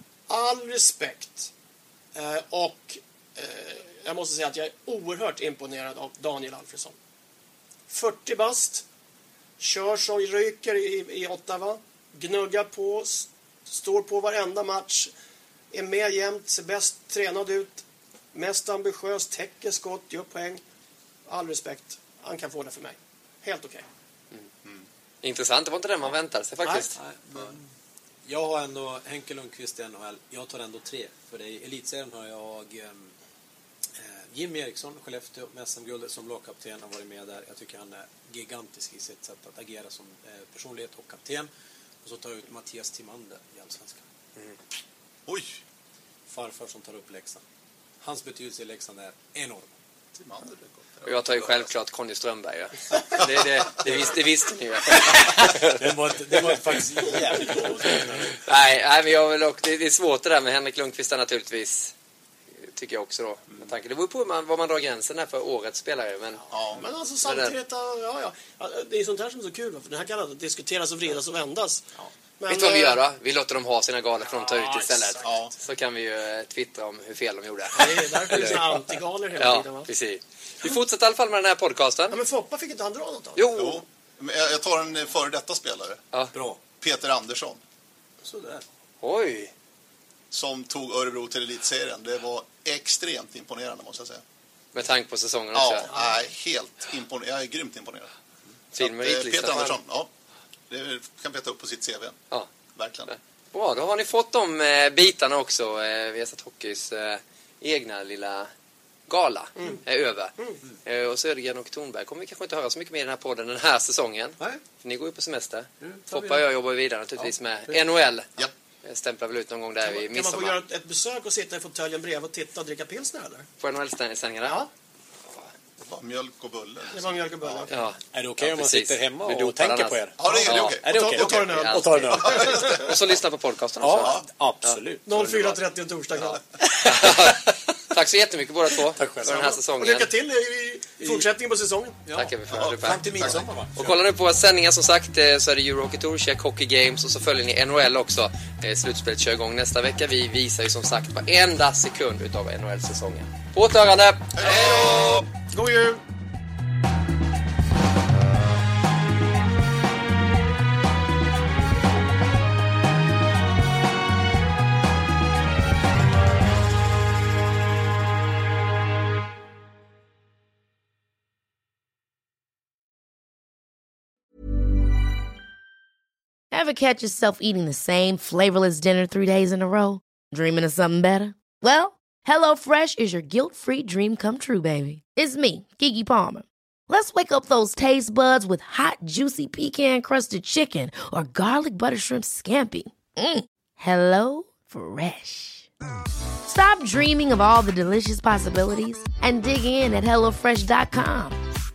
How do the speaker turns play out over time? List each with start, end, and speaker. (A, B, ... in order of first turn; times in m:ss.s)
0:00.3-0:01.5 A
0:02.1-0:06.9 A
0:07.9-0:08.8 A
0:09.6-0:15.1 A
0:15.7-0:20.6 A
0:21.3-0:23.8 A
0:25.2-0:26.9 B
0:26.6-0:26.9 A
0:26.9-0:27.7 C
0:28.2-0:33.1 C
0:34.0-0:41.5 C
0:42.0-0:44.0 C
0:45.3-0:45.6 D
0:46.3-0:47.4 C
0:48.0-0:49.7 C
0:50.2-0:51.6 D
0:51.0-0:55.8 B
0:55.5-0:58.3 C
0:57.4-1:01.9 B
1:02.6-1:06.4 B
1:06.5-1:06.9 D
1:06.7-1:13.0 A
1:07.2-1:07.6 B
1:12.5-1:22.2 B
1:14.2-1:15.4 A
1:15.2-1:15.5 D
1:17.7-1:19.9 A
1:22.1-1:23.5 A
1:23.4-1:23.8 B
1:23.5-1:26.0 D
1:26.3-1:26.6 C
1:26.8-1:27.6 D
1:28.2-1:28.6 C
1:29.0-1:29.5 B
1:30.3-1:34.2 D
1:34.7-1:35.9 B
1:35.5-1:38.1 D
1:38.7-1:39.8 B
1:38.8-1:40.1 D
1:40.7-1:42.2 D
1:42.7-1:43.1 D
1:43.1-1:48.5 B
1:49.1-2:00.6 B
1:55.8-1:56.4 C
1:57.2-1:57.8 C
1:59.8-2:03.5 A
2:03.6-2:04.6 B
2:04.4-2:04.7 A
2:05.8-2:07.7 D
2:06.9-2:07.8 A
2:07.7-2:15.6 B
2:08.1-2:10.2 C
2:10.2-2:11.4 D
2:10.8-2:12.5 C
2:10.8-2:12.9 A
2:12.3-2:12.9 D
2:13.8-2:15.0 C
2:15.0-2:16.4 A
2:16.7-2:20.1 B
2:16.9-2:17.5 C
2:18.9-2:19.5 C
2:19.2-2:22.0 A
2:21.0-2:21.3 C
2:22.0-2:24.0 C
2:22.1-2:34.4 B
2:22.5-2:23.4 D
2:34.3-2:35.3 D
2:34.4-2:36.0 A
2:56.5-3:15.7 E
3:16.5-3:21.4 E